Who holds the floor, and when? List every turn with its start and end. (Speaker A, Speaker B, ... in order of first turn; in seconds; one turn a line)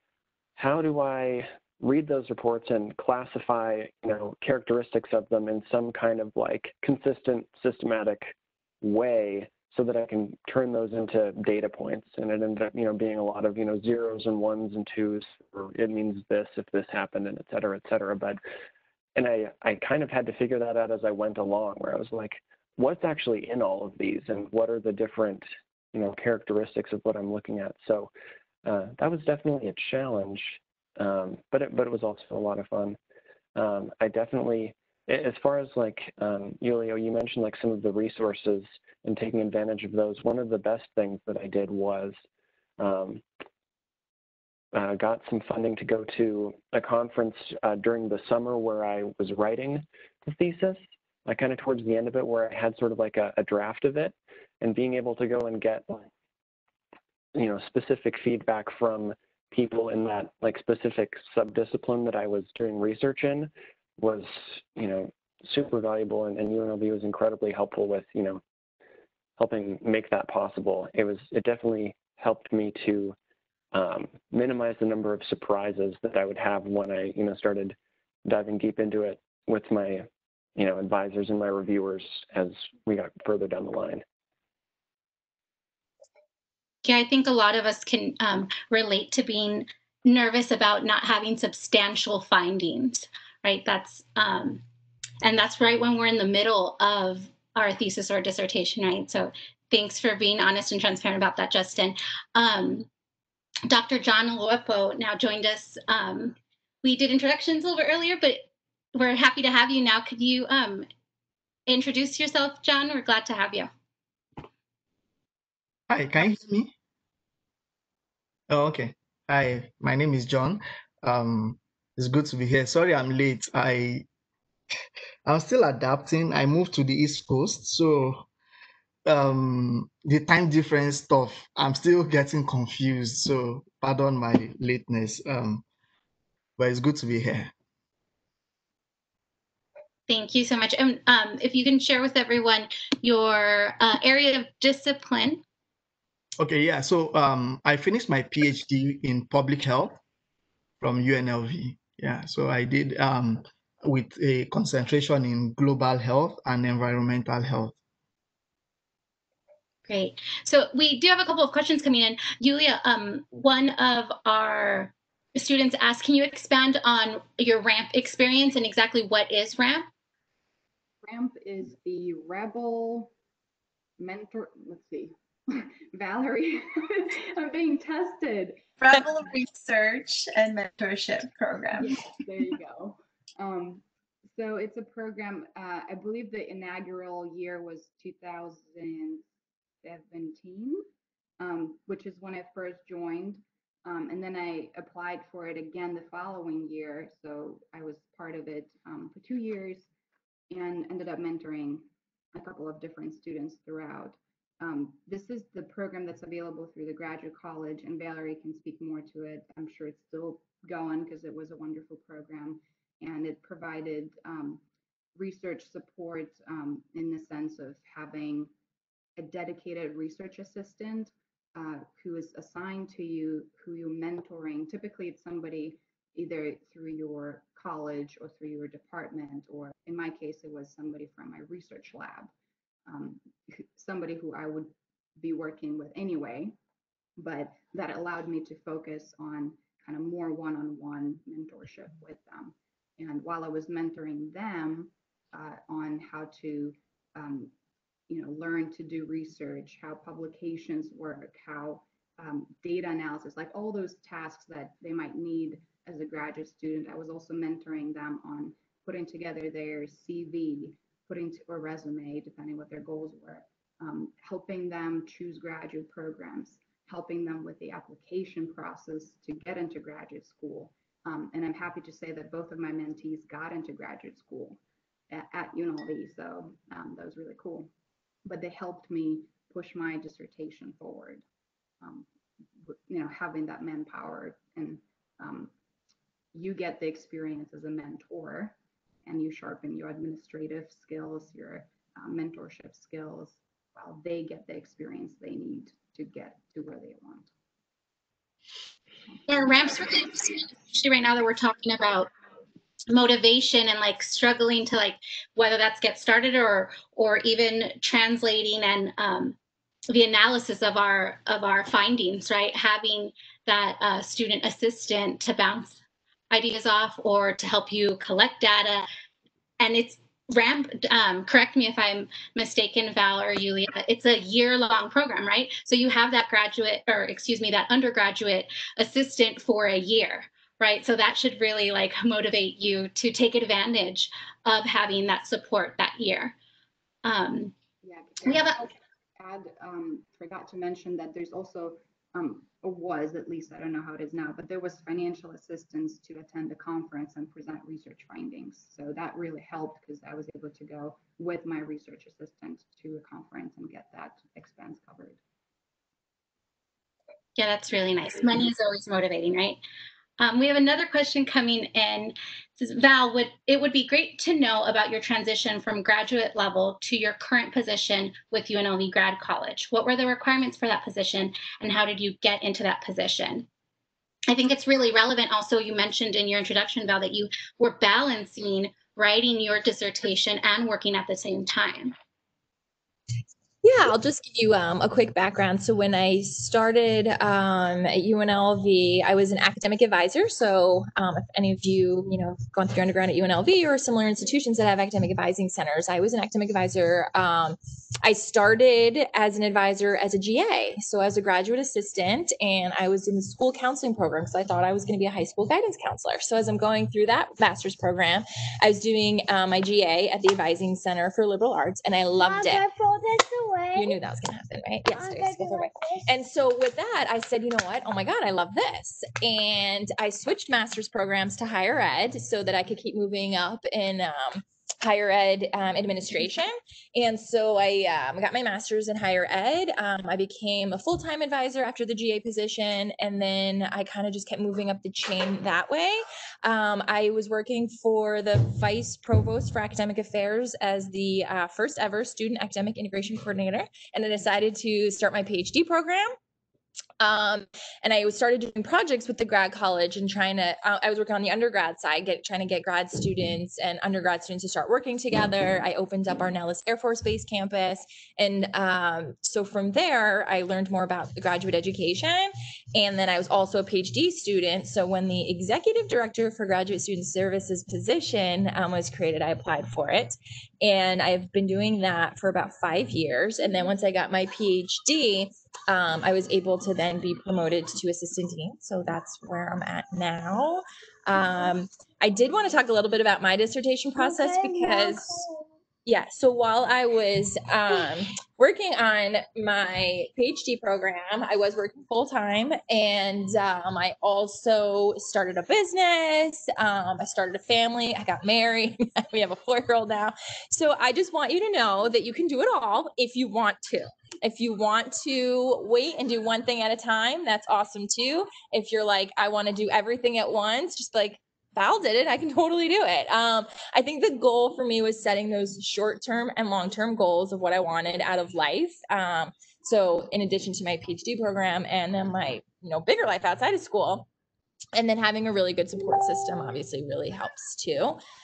Speaker A: 0.6-18.4
Speaker A: 19.1-28.1
Speaker A: 28.6-33.0
Speaker A: 33.5-42.2
Speaker A: 42.8-43.2
Speaker A: 44.7-56.1
Speaker A: 57.3-68.4
Speaker A: 69.4-73.2
Speaker A: 73.7-84.0
Speaker B: 86.8-94.6
Speaker B: 95.2-102.9
Speaker B: 103.7-110.8
Speaker B: 111.7-113.7
Speaker C: 115.9-116.7
Speaker C: 118.5-124.0
Speaker C: 125.2-128.3
Speaker C: 129.0-135.6
Speaker C: 136.6-137.5
Speaker B: 140.1-145.4
Speaker C: 146.4-150.0
Speaker C: 150.8-157.7
Speaker B: 159.9-169.9
Speaker D: 171.0-173.1
Speaker D: 174.0-178.7
Speaker E: 178.8-182.1
Speaker D: 181.8-189.2
Speaker D: 189.8-190.8
Speaker D: 191.4-199.9
Speaker D: 200.5-214.6
Speaker D: 215.2-218.5
Speaker D: 219.2-232.3
Speaker D: 232.9-236.6
Speaker D: 237.2-247.5
Speaker D: 248.1-274.6
Speaker D: 275.1-277.7
Speaker D: 278.2-281.2
Speaker D: 281.8-282.1
Speaker D: 282.6-285.5
Speaker D: 286.3-297.3
Speaker B: 299.3-302.1
Speaker B: 302.9-309.4
Speaker B: 309.9-315.8
Speaker B: 316.3-318.9
Speaker B: 319.6-336.3
Speaker B: 337.0-337.5
Speaker D: 337.8-355.2
Speaker B: 338.2-338.6
Speaker B: 357.4-359.6
Speaker B: 360.2-373.4
Speaker B: 374.3-381.9
Speaker F: 383.6-412.6
Speaker E: 412.2-413.9
Speaker F: 413.7-446.1
Speaker E: 414.9-416.0
Speaker F: 447.0-485.2
Speaker E: 484.0-485.5
Speaker F: 485.8-524.1
Speaker F: 524.7-528.0